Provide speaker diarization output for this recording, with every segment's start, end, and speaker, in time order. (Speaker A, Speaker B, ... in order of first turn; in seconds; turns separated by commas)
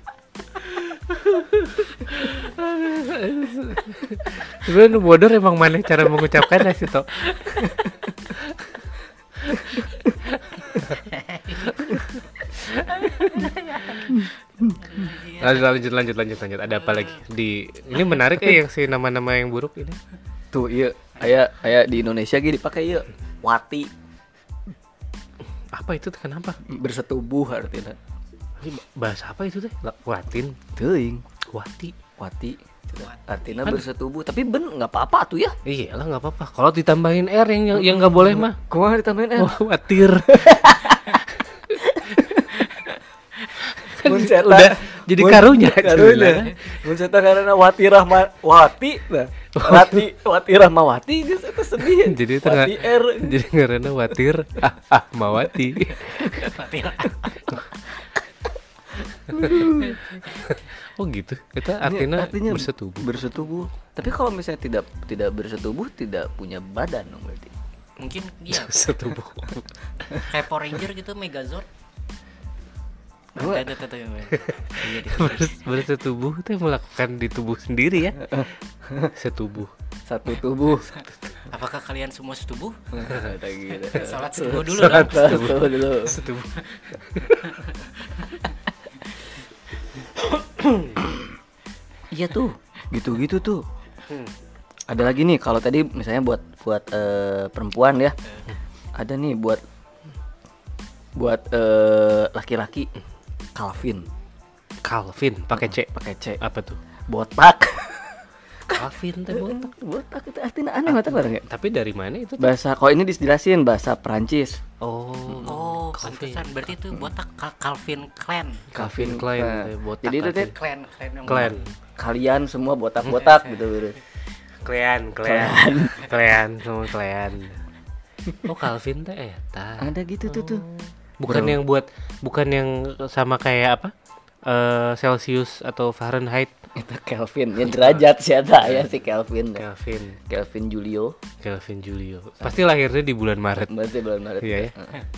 Speaker A: 1.4-7.8, Speaker A: 10.3-10.7, Speaker B: 10.9-11.8, Speaker B: 12.8-15.7, Speaker A: 12.8-13.5, Speaker C: 14.1-14.7, Speaker A: 15.4-20.0, Speaker B: 16.8-17.2, Speaker C: 20.5-23.9, Speaker A: 25.7-26.6, Speaker C: 26.6-28.0, Speaker A: 28.6-30.6, Speaker C: 30.7-31.2, Speaker A: 31.5-31.9, Speaker C: 32.2-35.5, Speaker B: 33.0-33.8, Speaker A: 35.6-38.6, Speaker C: 37.7-39.6, Speaker A: 39.4-40.9, Speaker C: 40.2-42.8, Speaker A: 43.6-46.7, Speaker C: 44.0-53.4, Speaker A: 49.5-50.0, Speaker A: 51.9-56.5, Speaker B: 56.2-57.6, Speaker C: 59.3-60.0, Speaker B: 59.6-60.0, Speaker A: 60.3-63.1, Speaker C: 61.8-67.5, Speaker B: 68.0-68.9, Speaker A: 68.5-69.7, Speaker B: 70.1-71.7, Speaker B: 73.3-75.7, Speaker C: 73.4-73.7, Speaker A: 74.3-78.4, Speaker C: 78.2-79.1, Speaker A: 79.2-79.7, Speaker C: 80.0-80.9, Speaker B: 81.0-83.1, Speaker C: 82.9-86.2, Speaker B: 83.8-85.5, Speaker A: 84.6-86.5, Speaker B: 86.6-86.9, Speaker A: 87.1-87.4, Speaker B: 87.4-88.5, Speaker A: 90.6-91.0, Speaker C: 92.1-93.6, Speaker C: 94.9-98.2, Speaker C: 99.0-99.6, Speaker C: 101.2-102.9, Speaker C: 103.5-104.1, Speaker A: 104.8-106.8, Speaker C: 105.5-106.4, Speaker C: 107.1-111.4, Speaker A: 108.7-109.7, Speaker A: 110.8-112.5, Speaker C: 112.4-114.6, Speaker A: 114.8-116.7, Speaker B: 115.5-118.7, Speaker C: 118.7-120.5, Speaker A: 118.7-120.5, Speaker B: 120.5-121.7, Speaker A: 121.3-121.7, Speaker C: 122.0-124.0, Speaker A: 124.6-127.6, Speaker C: 125.2-126.0, Speaker A: 128.4-133.9, Speaker C: 129.8-130.6, Speaker C: 131.3-131.6, Speaker A: 134.4-136.5, Speaker C: 136.7-139.7, Speaker A: 137.6-138.0, Speaker A: 138.6-138.9, Speaker A: 139.6-140.2, Speaker C: 140.3-141.2, Speaker A: 141.4-143.8, Speaker C: 143.6-145.0, Speaker A: 144.4-144.9